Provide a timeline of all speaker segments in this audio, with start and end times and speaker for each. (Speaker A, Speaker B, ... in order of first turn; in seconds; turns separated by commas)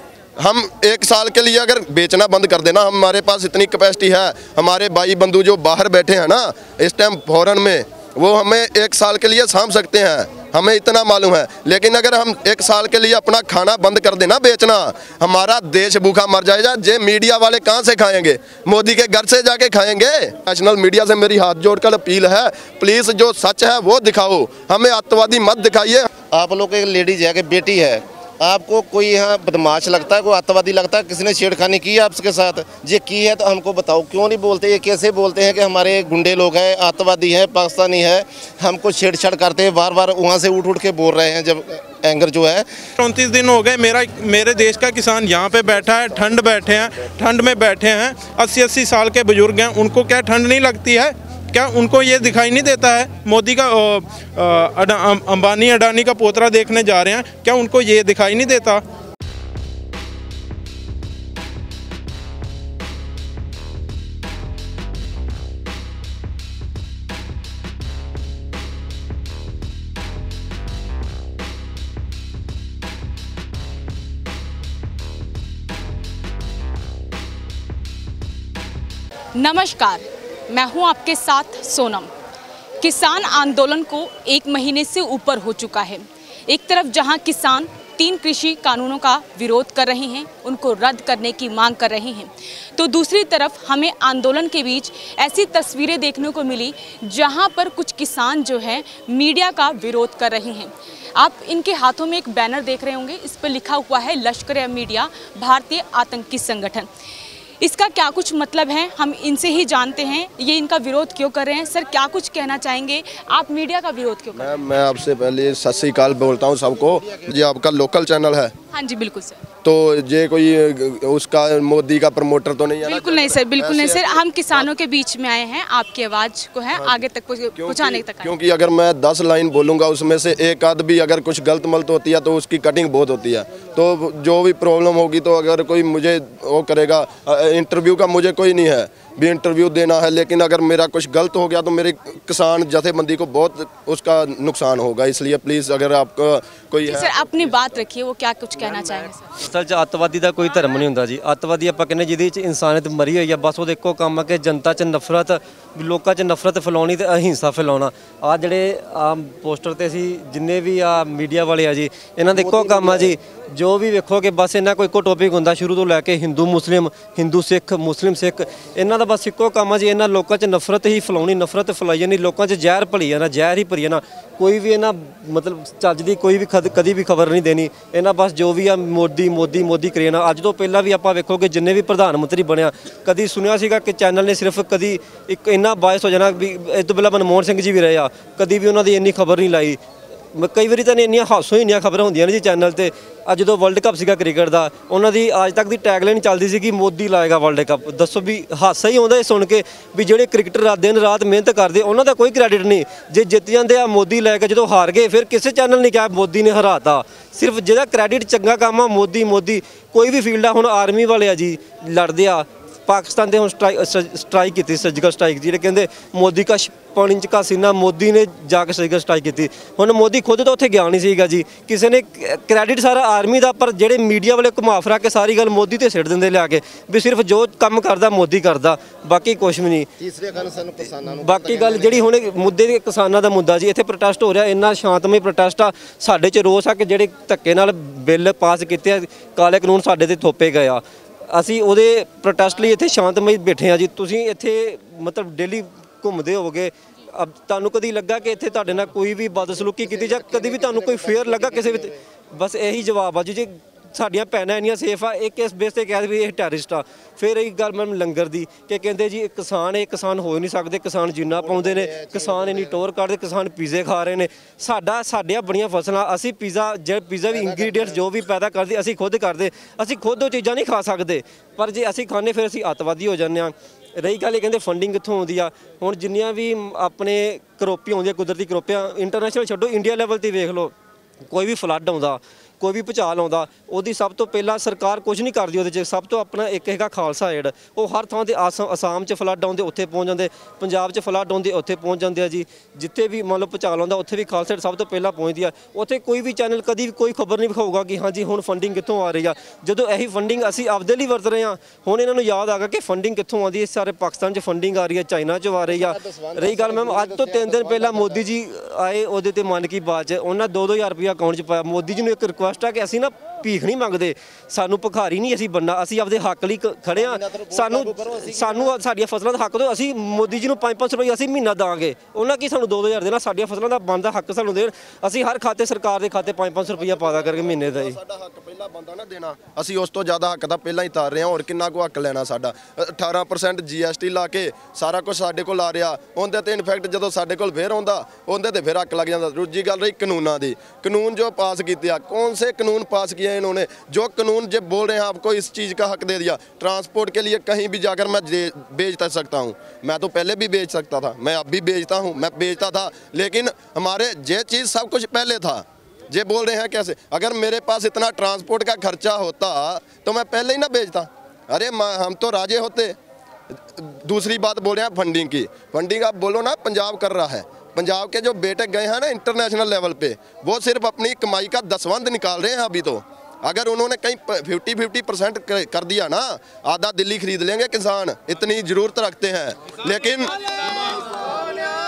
Speaker A: 0.4-26.1, Speaker B: 26.3-42.6, Speaker C: 43.0-58.8, Speaker D: 79.4-82.1, Speaker D: 82.8-106.9, Speaker D: 107.6-114.6, Speaker A: 114.3-118.5, Speaker D: 118.7-119.4, Speaker A: 119.6-124.7, Speaker D: 122.8-128.3, Speaker A: 126.8-127.0, Speaker A: 127.5-147.8, Speaker D: 146.8-149.3, Speaker E: 149.3-189.8, Speaker B: 162.3-163.1, Speaker E: 190.3-229.9, Speaker B: 230.0-232.0, Speaker E: 231.1-280.7, Speaker B: 249.8-251.9, Speaker B: 261.3-262.8, Speaker B: 267.3-268.0, Speaker E: 281.3-327.9, Speaker B: 305.6-308.2, Speaker B: 316.9-318.8, Speaker A: 326.8-362.9, Speaker A: 363.8-380.3